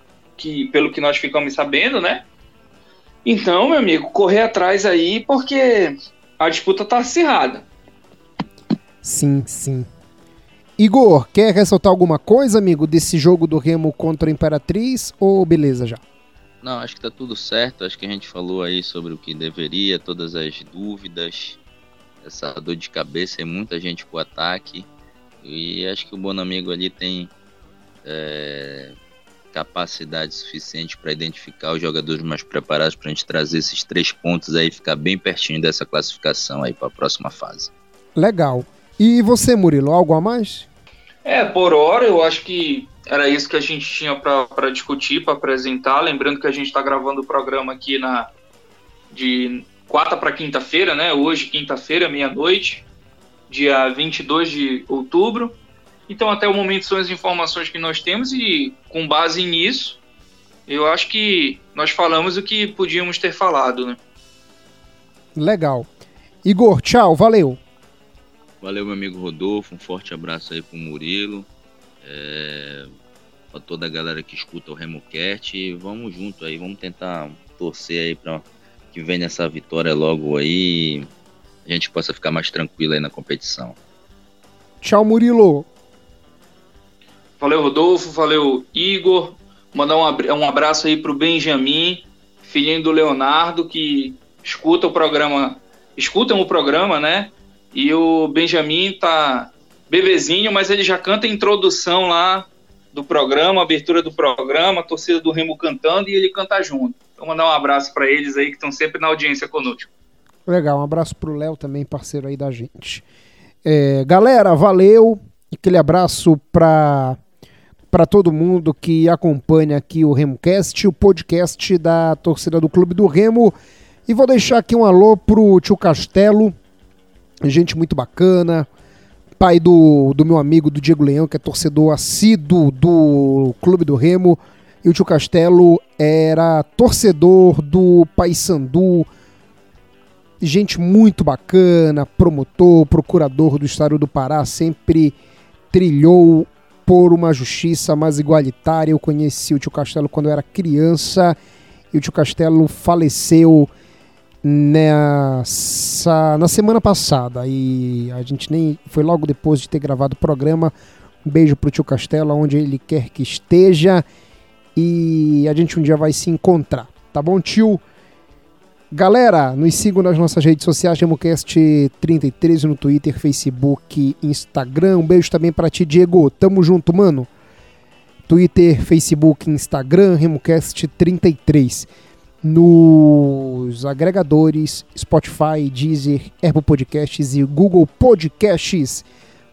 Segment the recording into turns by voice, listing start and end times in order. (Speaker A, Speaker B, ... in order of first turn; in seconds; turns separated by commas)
Speaker A: 0.4-2.2, Speaker A: 3.2-7.7, Speaker B: 9.0-9.9, Speaker B: 10.8-16.0, Speaker C: 16.6-21.6, Speaker C: 22.2-24.9, Speaker C: 25.4-27.3, Speaker C: 28.1-28.9, Speaker C: 29.5-37.7, Speaker B: 38.2-40.7, Speaker A: 41.2-48.3, Speaker A: 49.1-52.9, Speaker A: 53.5-55.5, Speaker A: 56.1-60.0, Speaker A: 60.7-64.0, Speaker B: 65.3-65.9, Speaker B: 66.5-67.6, Speaker C: 68.6-71.5, Speaker C: 72.0-72.9, Speaker C: 73.5-81.1, Speaker C: 81.7-83.8, Speaker B: 84.8-85.7, Speaker A: 87.4-109.9, Speaker B: 110.5-113.0, Speaker B: 113.7-117.2, Speaker B: 117.9-123.5, Speaker B: 124.1-126.5, Speaker B: 127.5-128.7, Speaker B: 129.4-139.1, Speaker B: 140.4-145.2, Speaker B: 145.7-151.4, Speaker B: 151.9-153.7, Speaker B: 154.4-160.7, Speaker B: 161.2-164.0, Speaker B: 164.8-167.8, Speaker B: 168.9-177.3, Speaker B: 178.3-181.9, Speaker B: 182.4-189.1